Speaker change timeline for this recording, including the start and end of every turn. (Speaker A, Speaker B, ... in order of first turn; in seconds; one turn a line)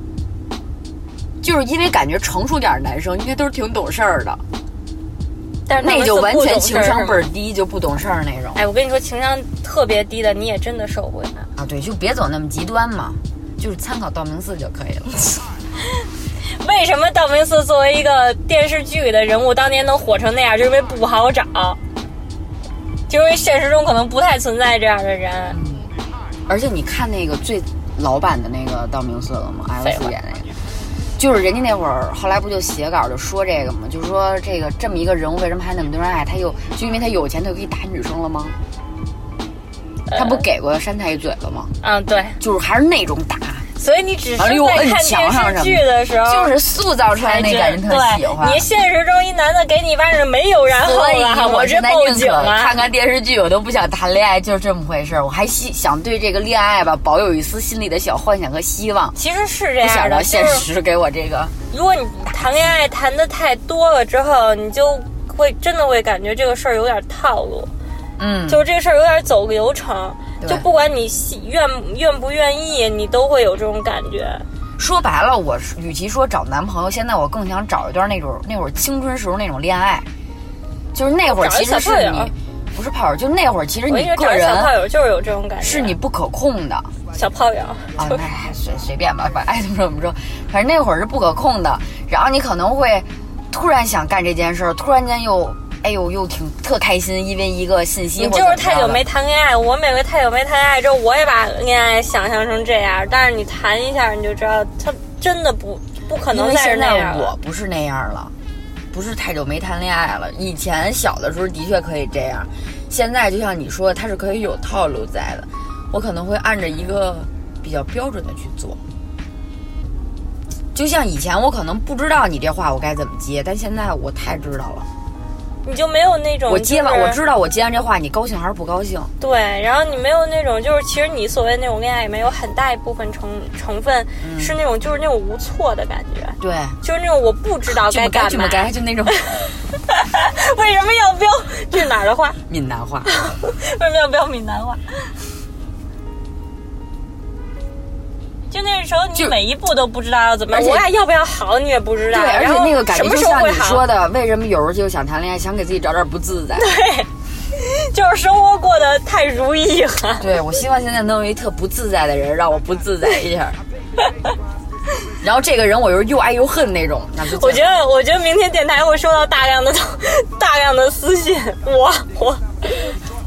Speaker A: 1.4-4.4
Speaker B: 5.7-7.2
Speaker A: 5.8-8.6
Speaker B: 8.5-11.5
Speaker A: 11.6-15.4
Speaker B: 16.5-21.8
Speaker B: 23.1-25.6
Speaker A: 25.5-25.9
Speaker A: 26.5-30.5
Speaker B: 29.8-30.1
Speaker A: 31.2-38.5
Speaker B: 40.1-40.4
Speaker A: 40.1-41.7
Speaker B: 41.8-42.4
Speaker A: 42.4-43.6
Speaker B: 43.8-46.5
Speaker A: 44.4-48.6
Speaker B: 47.1-52.7
Speaker A: 50.8-59.1
Speaker B: 59.1-60.7
Speaker A: 59.8-61.5
Speaker B: 61.7-67.7
Speaker A: 62.3-62.6
Speaker A: 68.2-68.6
Speaker B: 68.5-74.5
Speaker A: 70.4-70.7
Speaker A: 74.8-80.1
Speaker A: 80.9-84.7
Speaker B: 81.3-82.3
Speaker B: 83.9-86.0
Speaker A: 85.6-86.9
Speaker B: 87.1-88.2
Speaker A: 88.0-99.0
Speaker B: 98.2-107.3
Speaker A: 106.3-108.3
Speaker A: 108.9-118.8
Speaker A: 120.7-124.9
Speaker B: 125.6-127.2
Speaker A: 126.5-129.1
Speaker B: 129.2-142.4
Speaker A: 134.2-134.6
Speaker A: 136.4-136.8
Speaker A: 137.7-139.2
Speaker A: 142.5-143.1
Speaker B: 143.1-145.2
Speaker B: 148.5-153.8
Speaker A: 150.5-150.8
Speaker A: 152.1-156.7
Speaker B: 156.6-160.3
Speaker A: 160.2-163.6
Speaker A: 165.2-167.7
Speaker B: 167.3-173.0